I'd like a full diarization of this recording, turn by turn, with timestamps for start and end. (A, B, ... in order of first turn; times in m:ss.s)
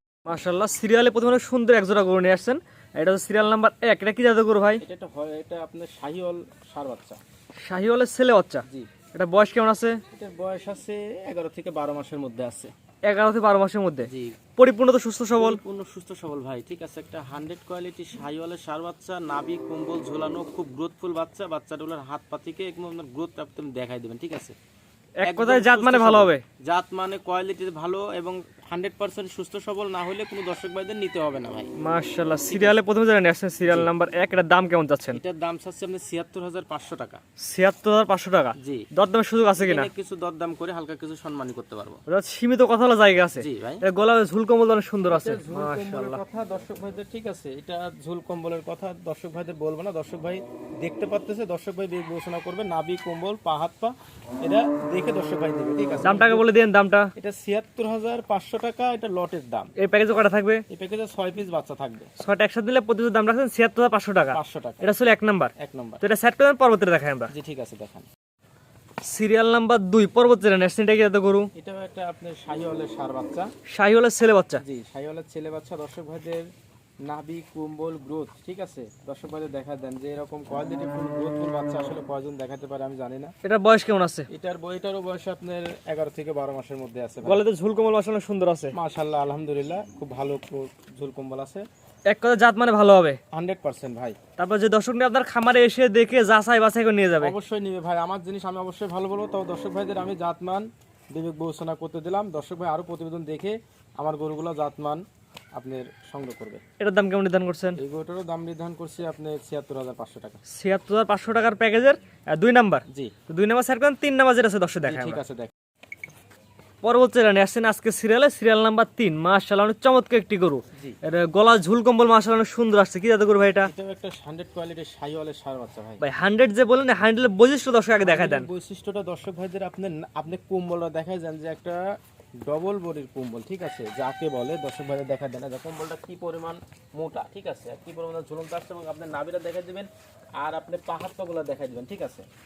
0:00.2-0:04.8 A
0:04.8-0:07.2 B
0:07.6-0:10.0 A
0:10.1-0:12.7 B
0:13.0-0:15.6 A
0:14.0-0:14.4 B
0:15.4-0:24.5 B
0:25.2-0:26.4 A
0:25.2-0:31.7 B
0:31.8-0:35.2 A
0:32.5-0:32.8 B
0:35.1-0:37.2 B
0:37.4-0:39.9 A
0:38.6-0:38.9 B
0:39.6-0:42.0 B
0:42.1-0:46.2 A
0:43.4-0:43.8 B
0:45.1-0:56.4 B
0:56.0-0:57.1 A
0:57.2-0:59.7 B
0:59.8-1:00.6 A
1:00.7-1:02.1 B
1:02.2-1:07.3 A
1:04.3-1:04.8 B
1:05.6-1:06.0 B
1:07.3-1:08.1 B
1:09.0-1:11.5 A
1:11.5-1:13.5 B
1:13.7-1:14.6 A
1:14.6-1:16.5 B
1:17.0-1:23.3 B
1:23.4-1:24.2 A
1:24.3-1:27.4 B
1:27.2-1:28.7 A
1:28.7-1:31.6 B
1:32.0-1:33.2 A
1:33.3-1:34.2 B
1:34.4-1:37.3 A
1:37.2-1:45.0 B
1:45.5-1:46.6 B
1:46.8-1:47.8 A
1:47.8-1:50.4 B
1:50.5-1:55.2 A
1:52.9-1:53.1 B
1:54.8-1:55.5 B
1:56.8-2:03.7 A
2:03.6-2:06.0 B
2:06.0-2:08.5 A
2:08.0-2:11.8 B
2:12.4-2:22.2 B